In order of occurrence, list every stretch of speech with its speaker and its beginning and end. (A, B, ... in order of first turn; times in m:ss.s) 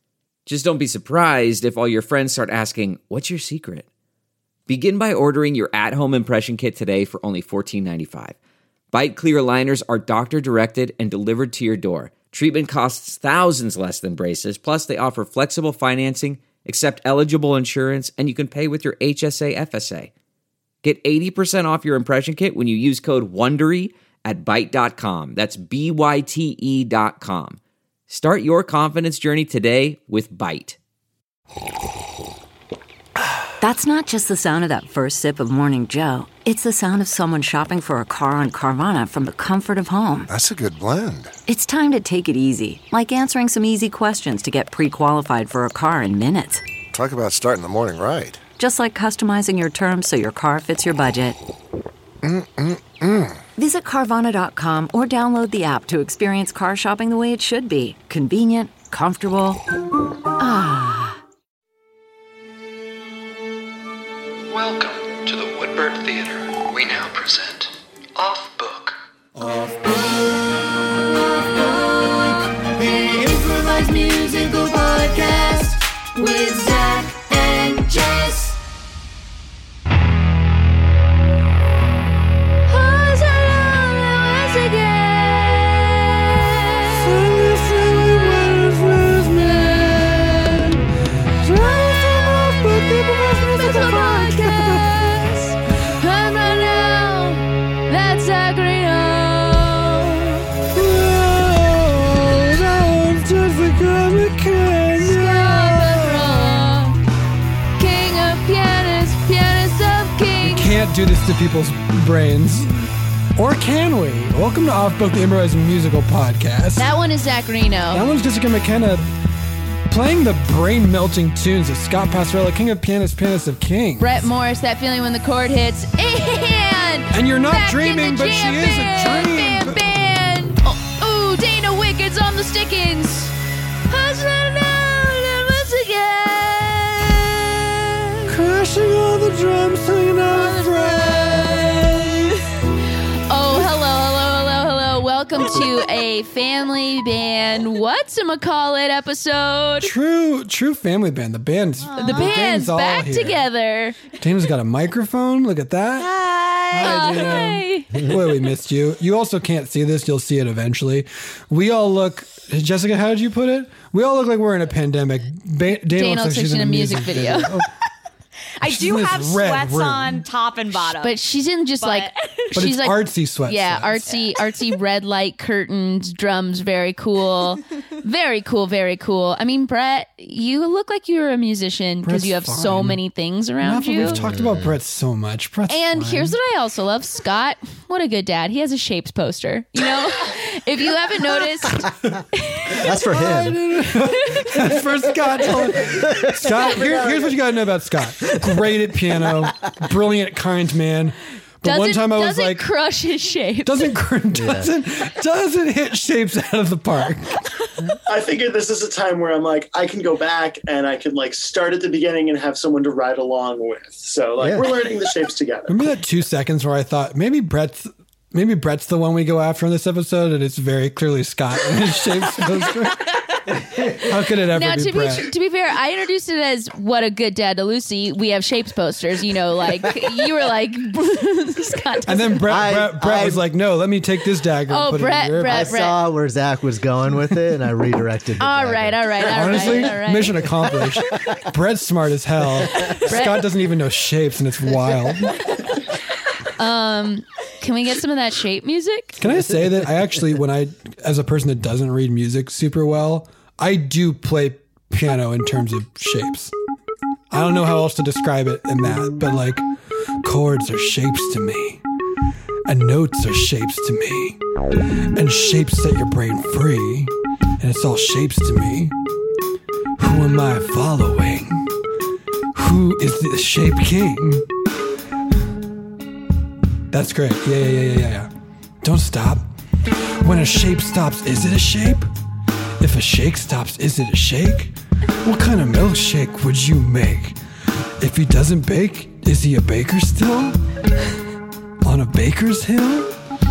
0:00.5-0:03.9 A
0:04.7-0:08.4 A
0:08.9-0:20.1 A
0:20.8-0:30.8 A
0:33.6-0:40.3 B
0:40.3-0:41.4 C
0:41.5-0:46.6 B
0:46.9-0:48.4 C
0:48.6-0:51.4 B
0:52.2-0:53.4 C
0:53.6-0:59.6 B
1:00.4-1:01.2 B
1:04.5-1:09.0 D
1:09.4-1:10.3 E
1:11.0-1:18.6 E
1:22.7-1:27.1 E
1:26.8-1:30.8 F
1:29.4-1:30.6 E
1:31.4-1:34.9 F
1:31.6-1:32.6 E
1:33.6-1:40.4 E
1:40.7-1:46.6 F
1:45.0-1:47.0 E
1:47.8-1:50.7 E
1:50.4-1:56.9 F
1:56.8-1:58.0 E
1:57.9-1:59.1 F
1:59.9-2:04.2 F
2:04.0-2:13.4 E
2:07.1-2:09.8 F
2:13.9-2:18.3 E
2:18.3-2:22.4 F
2:20.3-2:22.4 E
2:23.3-2:29.9 E
2:29.8-2:33.5 F
2:31.8-2:32.3 G
2:32.0-2:34.0 E
2:34.2-2:36.1 F
2:36.0-2:37.2 G
2:36.7-2:47.7 F
2:36.8-2:38.0 E
2:45.9-2:47.5 E
2:48.6-2:51.2 G
2:48.6-2:50.3 F
2:51.0-3:04.2 E
2:51.8-2:52.5 G
2:52.5-2:53.9 F
2:54.1-2:54.5 G
3:02.0-3:03.0 F
3:03.6-3:06.4 F
3:04.0-3:04.8 H
3:05.7-3:12.9 E
3:12.7-3:13.6 H
3:12.8-3:22.6 F
3:16.9-3:17.2 H
3:21.6-3:23.9 E
3:23.6-3:27.5 F
3:24.3-3:24.7 H
3:28.1-3:35.8 I
3:34.4-3:34.7 H
3:35.7-3:43.1 F
3:43.7-3:45.3 F
3:44.6-3:52.4 E
3:52.1-3:55.7 F
3:52.5-3:53.4 H
3:54.7-3:56.0 E
3:55.4-3:59.9 H
3:58.4-4:00.8 E
3:59.2-4:05.5 F
4:03.0-4:03.4 E
4:06.6-4:09.2 E
4:09.2-4:16.5 F
4:17.3-4:19.7 F
4:20.2-4:21.8 F
4:22.7-4:24.4 F
4:25.2-4:29.0 F
4:30.0-4:31.7 F
4:32.6-4:34.5 F
4:36.9-4:38.3 F
4:38.8-4:39.5 F
4:40.2-4:42.1 F
4:42.8-4:47.4 F
4:48.0-4:50.6 F
4:51.8-4:53.1 F